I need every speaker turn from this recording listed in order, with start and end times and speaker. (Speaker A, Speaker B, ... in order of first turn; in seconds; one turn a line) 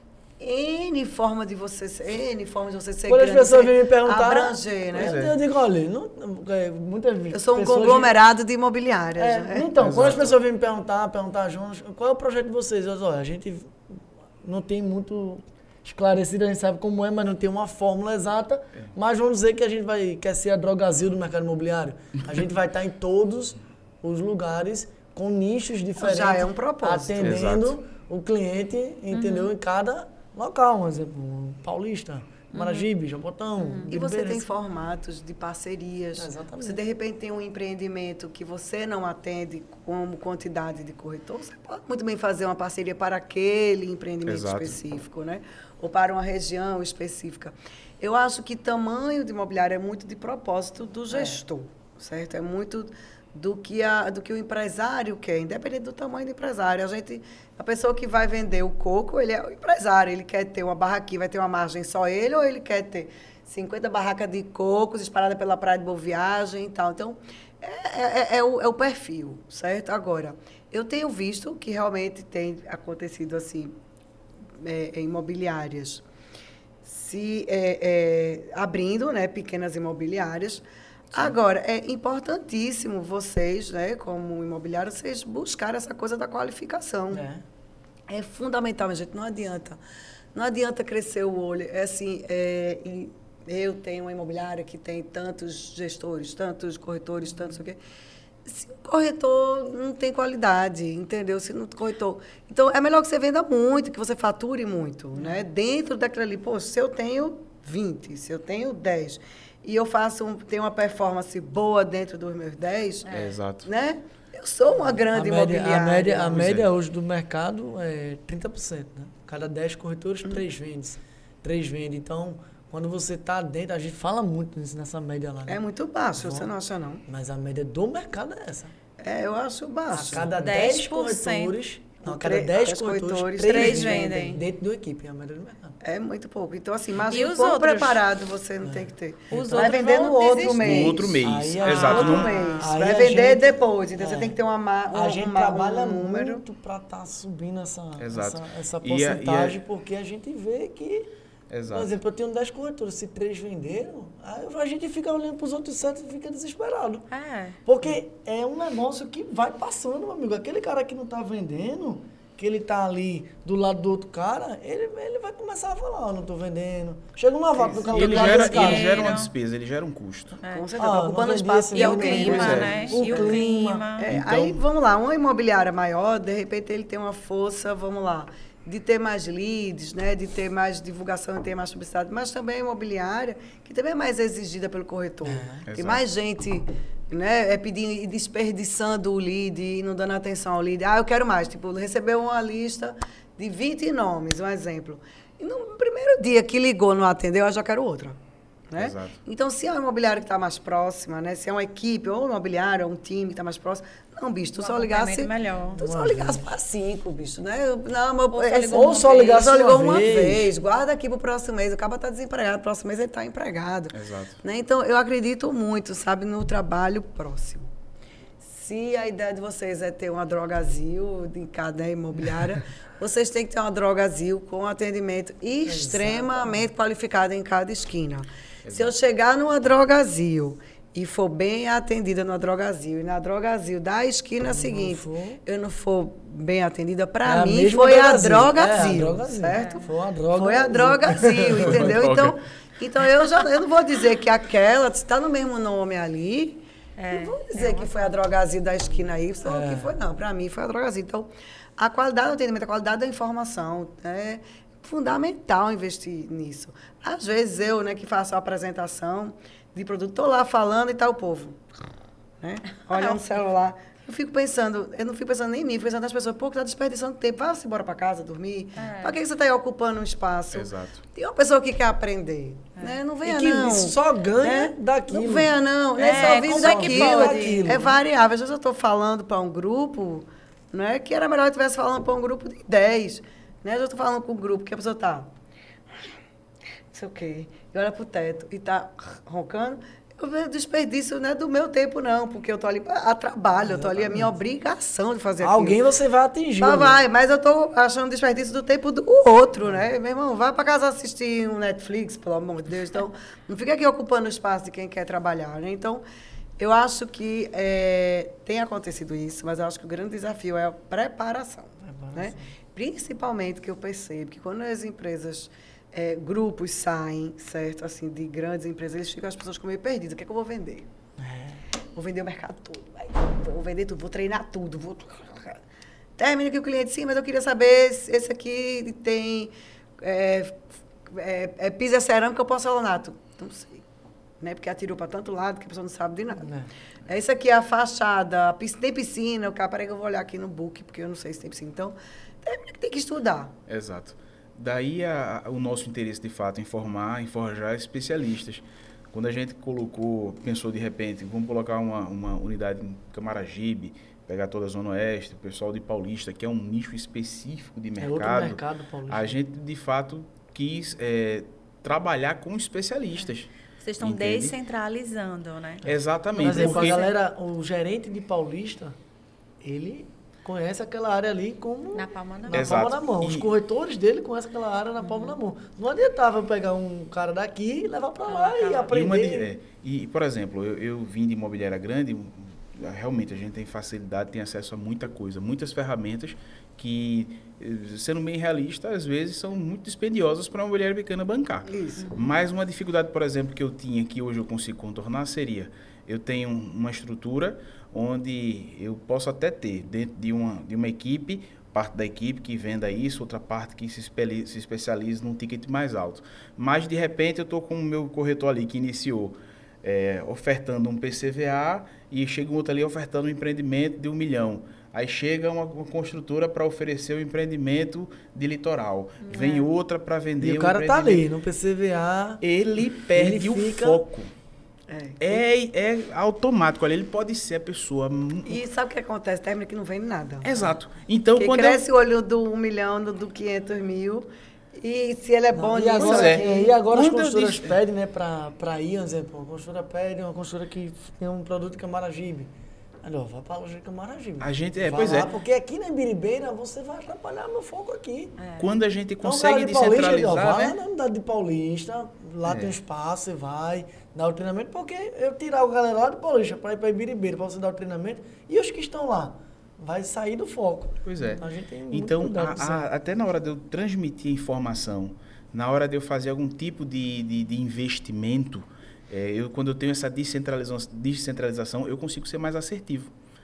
Speaker A: 0.4-5.2
Speaker B: 3.1-8.1
Speaker C: 5.0-5.4
Speaker A: 7.3-9.7
Speaker B: 9.2-34.4
Speaker C: 9.8-10.4
Speaker A: 26.0-27.4
Speaker C: 27.2-27.8
Speaker D: 29.1-29.5
Speaker D: 32.5-32.9
Speaker D: 33.6-33.9
Speaker A: 33.9-73.7
Speaker B: 36.2-36.8
Speaker C: 44.3-44.8
Speaker A: 74.5-76.0
Speaker A: 76.8-87.2
Speaker B: 87.1-87.4
Speaker A: 88.1-89.8
Speaker A: 90.3-97.8
Speaker A: 98.5-116.5
Speaker D: 113.1-113.3
Speaker C: 113.1-113.7
Speaker B: 114.8-125.6
Speaker C: 116.3-116.7
Speaker A: 125.5-127.0
Speaker B: 126.2-126.5
Speaker B: 127.1-128.7
Speaker A: 129.0-130.3
Speaker B: 129.9-135.8
Speaker D: 130.4-131.6
Speaker A: 132.0-134.4
Speaker D: 133.4-134.4
Speaker A: 135.8-141.2
Speaker D: 137.0-138.0
Speaker B: 138.6-139.7
Speaker D: 139.3-140.8
Speaker C: 140.5-142.3
Speaker B: 140.7-144.4
Speaker D: 141.7-142.3
Speaker A: 141.7-146.4
Speaker B: 144.9-151.1
Speaker C: 148.0-149.6
Speaker C: 151.5-151.9
Speaker B: 151.7-157.1
Speaker D: 157.1-157.6
Speaker B: 157.7-169.1
Speaker A: 167.7-168.3
Speaker C: 167.8-170.4
Speaker D: 168.0-169.3
Speaker D: 170.4-170.7
Speaker A: 170.5-173.4
Speaker B: 170.8-173.9
Speaker D: 171.7-174.1
Speaker C: 172.2-172.7
Speaker A: 174.0-198.2
Speaker C: 174.1-174.6
Speaker B: 185.2-185.7
Speaker C: 185.7-186.0
Speaker A: 198.7-217.7
Speaker C: 198.8-199.2
Speaker D: 204.6-205.8
Speaker B: 205.8-206.5
Speaker D: 208.3-209.5
Speaker B: 208.7-210.5
Speaker C: 213.9-214.4
Speaker A: 218.4-261.6
Speaker B: 225.7-226.7
Speaker C: 228.6-228.9
Speaker B: 234.5-235.4
Speaker B: 237.2-242.0
Speaker D: 239.5-239.9
Speaker C: 241.6-242.4
Speaker D: 247.0-248.1
Speaker B: 249.5-250.0
Speaker A: 262.4-285.3
Speaker D: 268.8-269.2
Speaker C: 270.5-271.0
Speaker B: 273.2-275.5
Speaker D: 276.0-277.8
Speaker B: 276.2-278.0
Speaker A: 286.9-295.8
Speaker B: 293.6-294.3
Speaker B: 295.4-297.0
Speaker A: 296.6-306.0
Speaker A: 306.6-320.9
Speaker B: 311.8-312.5
Speaker B: 321.2-321.6
Speaker A: 321.9-325.6
Speaker A: 326.2-333.9
Speaker A: 334.4-336.5
Speaker B: 336.4-336.7
Speaker A: 337.1-343.5
Speaker C: 343.7-364.6
Speaker B: 358.0-359.4
Speaker D: 363.8-365.9
Speaker C: 365.8-367.1
Speaker B: 366.4-369.0
Speaker D: 366.4-367.1
Speaker B: 369.6-379.5
Speaker D: 371.9-372.8
Speaker C: 372.5-373.5
Speaker D: 375.0-375.4
Speaker D: 378.3-378.9
Speaker C: 378.9-421.2
Speaker A: 391.7-392.2
Speaker D: 419.2-419.7
Speaker B: 420.4-422.4
Speaker C: 422.4-424.3
Speaker B: 423.1-424.0
Speaker A: 424.9-425.4
Speaker C: 425.2-428.6
Speaker A: 428.5-430.5
Speaker C: 430.4-431.8
Speaker A: 431.4-436.7
Speaker B: 435.6-442.5
Speaker C: 436.0-437.8
Speaker B: 443.0-448.4
Speaker C: 444.4-445.3
Speaker D: 448.4-448.7
Speaker C: 448.6-450.8
Speaker B: 449.2-462.9
Speaker C: 452.4-452.7
Speaker C: 461.1-473.1